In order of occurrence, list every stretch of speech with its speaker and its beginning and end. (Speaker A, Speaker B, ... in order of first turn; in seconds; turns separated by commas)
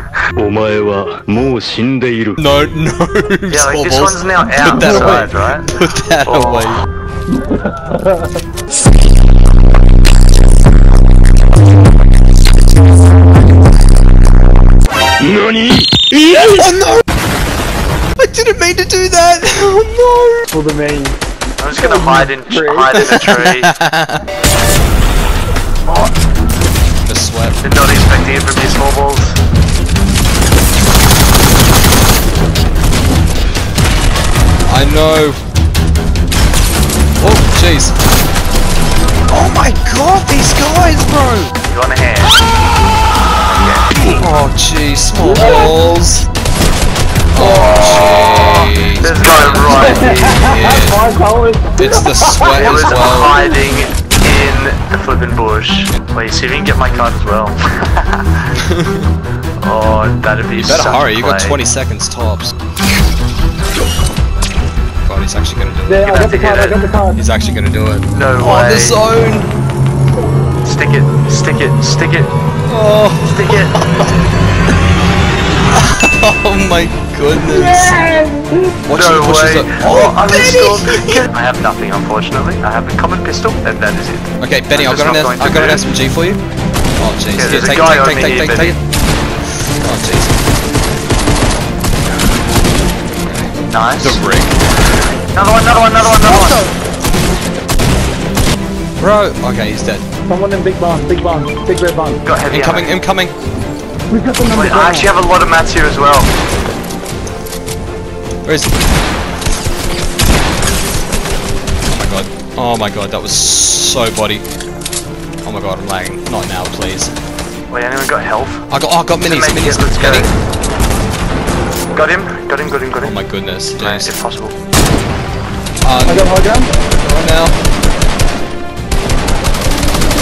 Speaker A: 0.4-2.4, Speaker B: 2.4-6.8, Speaker C: 3.5-6.8, Speaker D: 4.8-5.2, Speaker D: 7.4-8.2, Speaker A: 15.2-16.1, Speaker B: 16.2-17.0, Speaker B: 18.2-20.4, Speaker D: 20.5-21.2, Speaker C: 21.6-23.7, Speaker D: 21.8-23.1, Speaker B: 23.0-24.2, Speaker B: 27.0-27.6, Speaker C: 27.6-29.4, Speaker B: 34.7-35.4, Speaker B: 37.2-38.0, Speaker B: 39.3-41.5, Speaker C: 41.7-42.3, Speaker C: 43.5-43.9, Speaker B: 44.1-46.3, Speaker D: 45.2-45.8, Speaker B: 47.3-51.0, Speaker C: 47.4-50.4, Speaker D: 49.8-53.0, Speaker B: 51.8-53.6, Speaker C: 52.5-58.4, Speaker B: 58.7-59.1, Speaker C: 59.6-61.6, Speaker B: 60.6-62.5, Speaker B: 65.1-66.1, Speaker D: 65.9-67.2, Speaker C: 66.0-66.8, Speaker B: 67.2-69.5, Speaker C: 68.1-69.0, Speaker C: 70.7-72.3, Speaker B: 72.7-74.1, Speaker C: 73.3-73.8, Speaker B: 75.7-78.1, Speaker D: 77.9-78.5, Speaker B: 78.8-81.3, Speaker C: 78.9-85.8, Speaker B: 84.4-86.4, Speaker B: 87.0-88.8, Speaker C: 87.3-88.8, Speaker B: 89.8-90.4, Speaker B: 93.3-94.6, Speaker C: 93.7-94.2, Speaker C: 95.3-96.6, Speaker B: 96.0-96.3, Speaker B: 99.0-100.0, Speaker D: 100.3-102.2, Speaker C: 102.2-103.0, Speaker B: 102.5-103.3, Speaker D: 104.1-105.1, Speaker C: 104.5-106.3, Speaker B: 108.4-108.7, Speaker B: 111.9-114.4, Speaker B: 115.4-117.1, Speaker C: 117.7-118.7, Speaker B: 118.7-120.3, Speaker C: 119.2-120.3, Speaker C: 121.9-124.5, Speaker B: 123.0-124.1, Speaker B: 125.8-126.3, Speaker D: 126.0-126.7, Speaker B: 127.0-127.6